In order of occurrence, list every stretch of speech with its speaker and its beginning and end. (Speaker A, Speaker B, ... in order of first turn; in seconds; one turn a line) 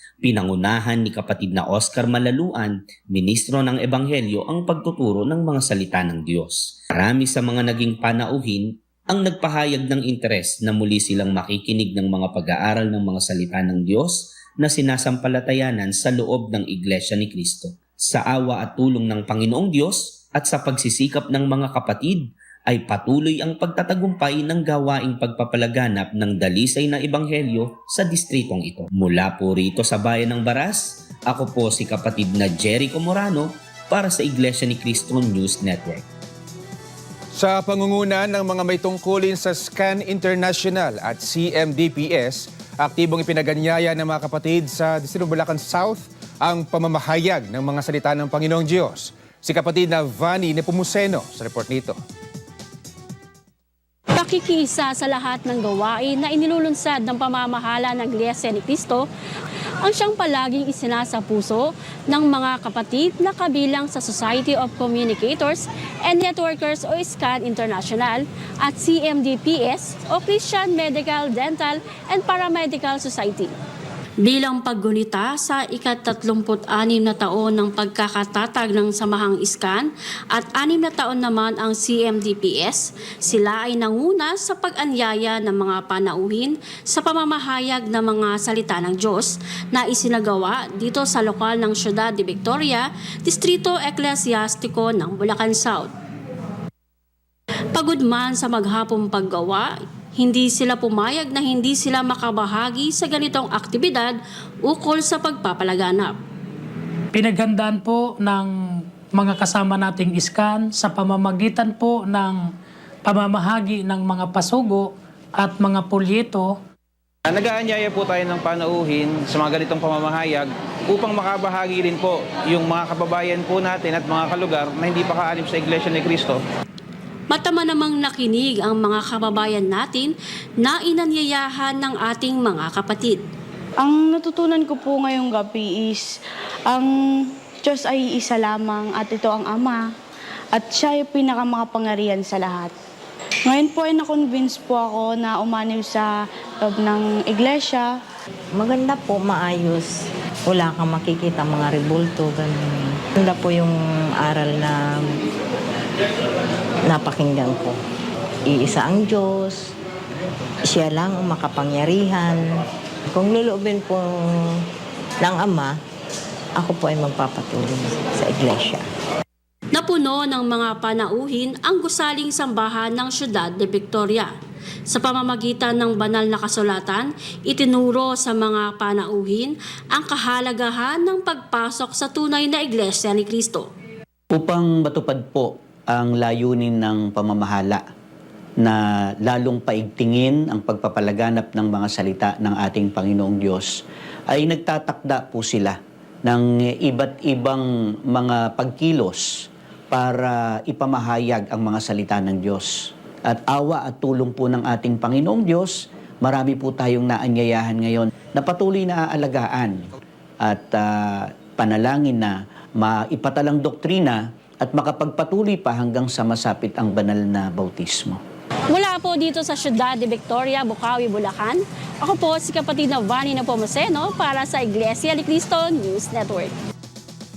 Speaker A: 0.3-36.0
Speaker B: 37.3-52.0
Speaker C: 54.2-59.1
Speaker C: 59.8-73.5
Speaker C: 74.2-95.9
Speaker C: 97.7-104.2
Speaker C: 104.7-106.2
Speaker D: 107.1-108.5
Speaker D: 109.2-112.4
Speaker D: 113.1-116.5
Speaker E: 117.2-126.4
Speaker C: 127.3-133.2
Speaker F: 133.8-136.1
Speaker F: 137.6-139.8
Speaker F: 140.6-142.7
Speaker F: 143.5-146.1
Speaker F: 146.6-147.9
Speaker G: 148.5-149.9
Speaker G: 150.5-155.1
Speaker G: 156.8-157.8
Speaker G: 158.5-159.7
Speaker G: 160.6-162.4
Speaker G: 163.1-164.3
Speaker G: 165.2-165.8
Speaker G: 166.6-168.8
Speaker C: 169.8-174.3
Speaker C: 174.9-183.7
Speaker H: 184.3-187.8
Speaker H: 188.6-193.7
Speaker H: 194.3-199.3
Speaker H: 199.9-202.7
Speaker H: 203.3-209.9
Speaker H: 210.4-218.2
Speaker C: 218.7-226.5